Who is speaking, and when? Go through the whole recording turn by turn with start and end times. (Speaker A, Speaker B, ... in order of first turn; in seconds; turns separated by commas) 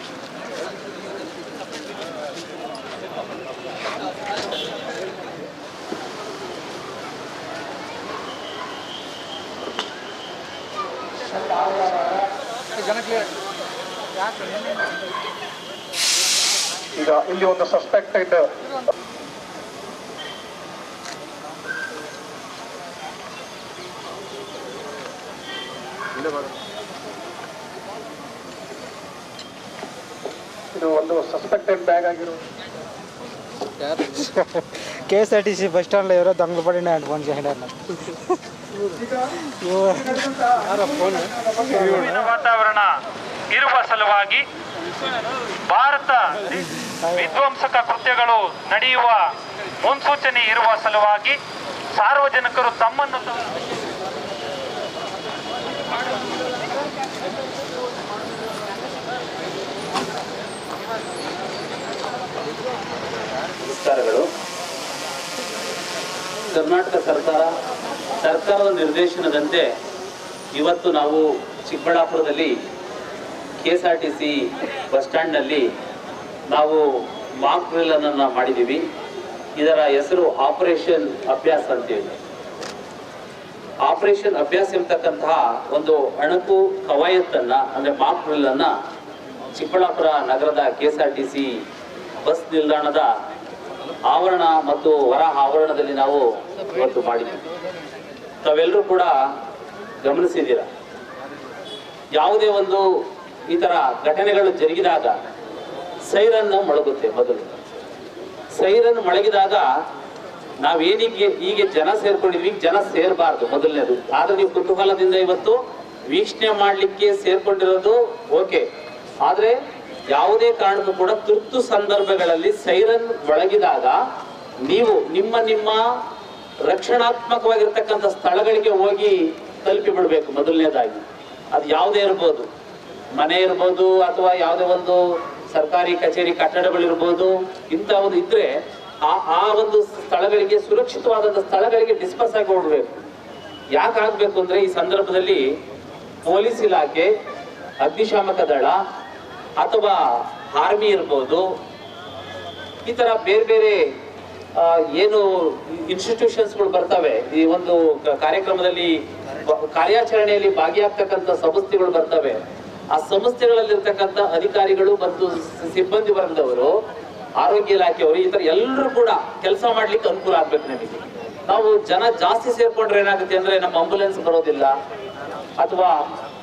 Speaker A: 17.0-18.5, Speaker A: 30.8-32.4, Speaker B: 33.9-37.8, Speaker B: 39.6-40.1, Speaker C: 39.6-42.9, Speaker A: 40.3-40.7, Speaker B: 41.0-41.3, Speaker C: 43.5-44.5, Speaker C: 45.7-51.4, Speaker C: 51.9-53.5, Speaker D: 63.6-64.3, Speaker D: 66.5-67.5, Speaker D: 68.2-69.7, Speaker D: 70.5-72.6, Speaker D: 73.6-75.7, Speaker D: 76.5-78.8, Speaker D: 79.6-82.2, Speaker D: 83.8-88.7, Speaker D: 89.5-91.6, Speaker D: 92.2-93.1, Speaker D: 94.1-97.4, Speaker D: 98.4-99.1, Speaker D: 100.0-100.7, Speaker D: 102.2-102.9, Speaker D: 103.5-105.2, Speaker D: 106.1-107.6, Speaker D: 108.5-109.7, Speaker D: 110.6-118.7, Speaker D: 119.2-119.6, Speaker D: 120.1-124.0, Speaker D: 124.7-125.8, Speaker D: 126.7-132.5, Speaker D: 133.2-143.1, Speaker D: 143.7-145.5, Speaker D: 146.2-147.1, Speaker D: 147.8-148.8, Speaker D: 149.6-151.5, Speaker D: 152.8-153.9, Speaker D: 154.6-162.4, Speaker D: 162.9-166.7, Speaker D: 167.4-174.7, Speaker D: 175.6-176.1